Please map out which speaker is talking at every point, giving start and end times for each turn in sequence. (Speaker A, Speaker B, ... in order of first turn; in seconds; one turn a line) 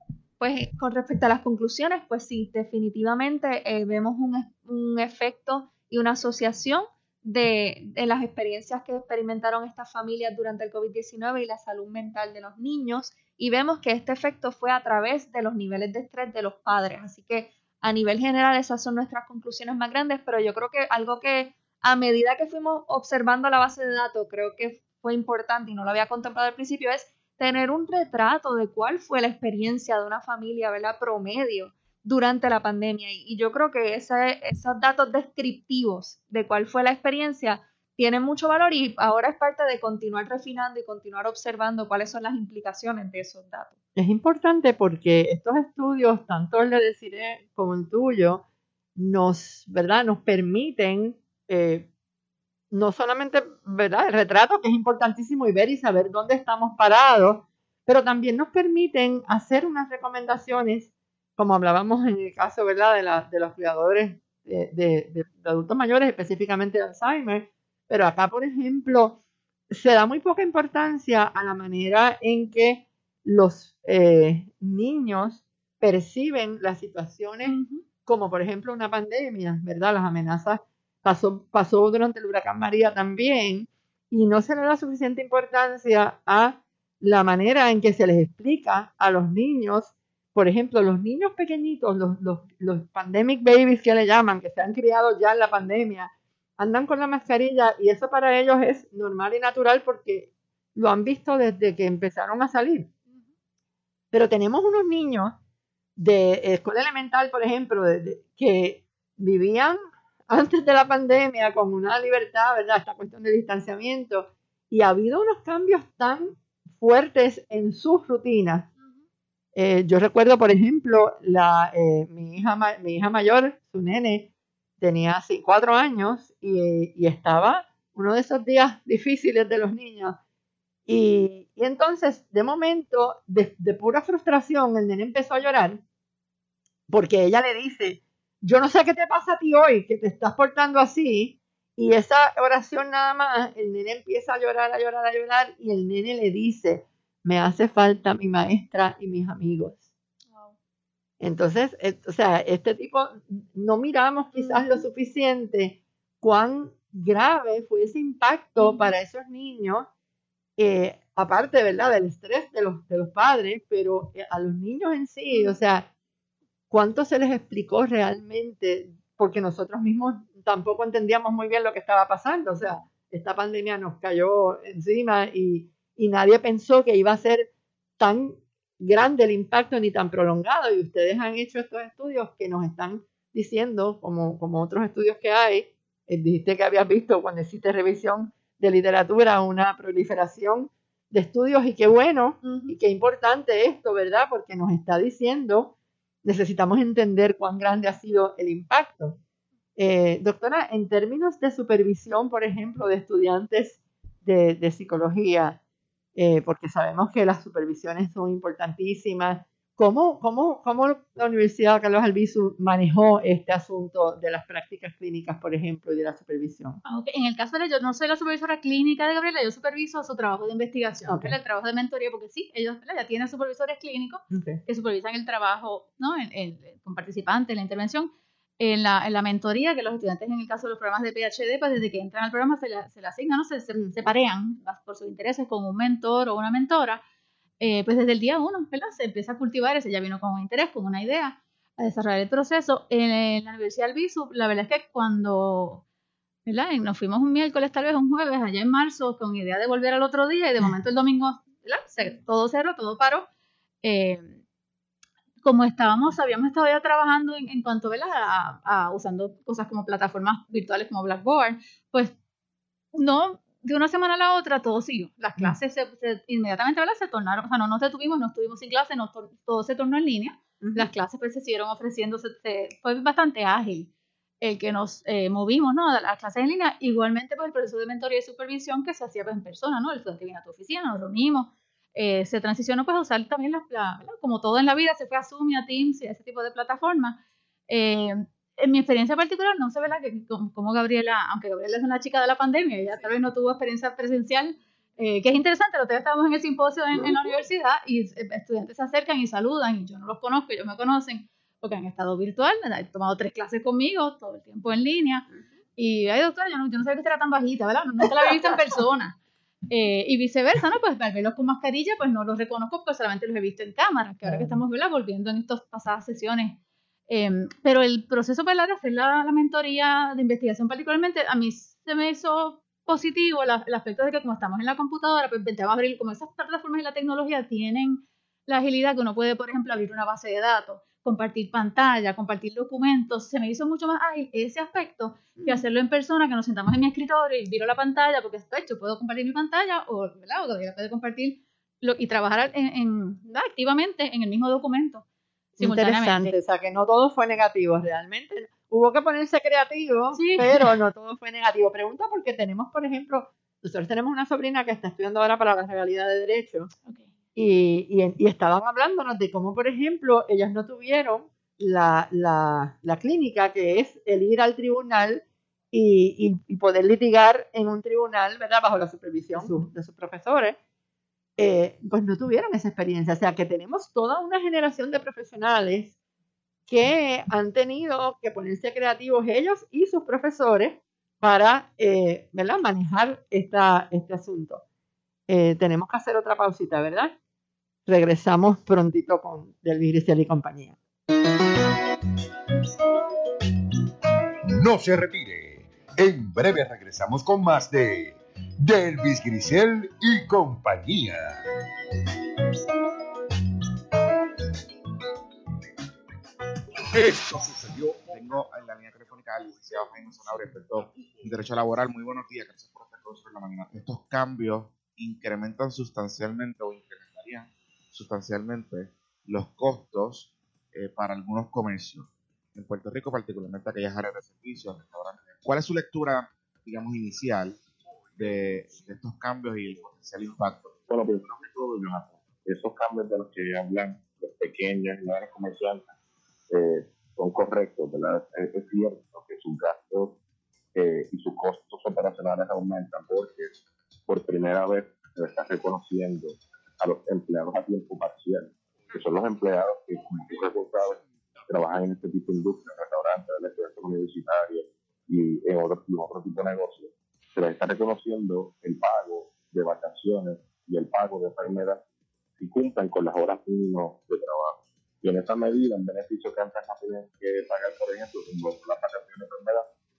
Speaker A: 0.4-43.7
Speaker B: 44.0-48.4
Speaker B: 49.0-51.9
Speaker B: 52.7-69.2
Speaker B: 69.7-102.9
Speaker C: 77.4-77.8
Speaker B: 104.1-105.4
Speaker B: 106.0-118.7
Speaker B: 119.5-130.2
Speaker B: 130.9-135.8
Speaker B: 136.9-149.9
Speaker B: 151.2-159.9
Speaker C: 154.3-154.6
Speaker B: 160.6-165.9
Speaker B: 166.7-199.2
Speaker C: 192.4-192.8
Speaker B: 199.8-205.6
Speaker B: 206.2-216.8
Speaker C: 216.8-237.0
Speaker B: 221.0-221.3
Speaker B: 224.3-224.6
Speaker B: 233.8-234.0
Speaker C: 237.6-245.8
Speaker C: 246.4-253.3
Speaker C: 253.8-254.4
Speaker C: 255.4-262.1
Speaker C: 262.9-273.9
Speaker B: 270.6-270.9
Speaker C: 274.4-309.1
Speaker C: 309.7-316.6
Speaker B: 314.3-314.5
Speaker C: 317.1-345.0
Speaker C: 345.6-346.4
Speaker B: 345.6-356.7
Speaker C: 350.1-350.7
Speaker B: 357.3-370.6
Speaker B: 371.4-375.9
Speaker B: 376.7-384.6
Speaker B: 385.3-387.1
Speaker B: 387.9-390.8
Speaker D: 394.5-401.4
Speaker D: 407.0-408.1
Speaker E: 408.1-427.6
Speaker E: 428.1-430.9
Speaker F: 430.9-435.9
Speaker F: 436.5-440.2
Speaker F: 440.7-443.5
Speaker F: 444.1-461.8
Speaker F: 462.4-469.7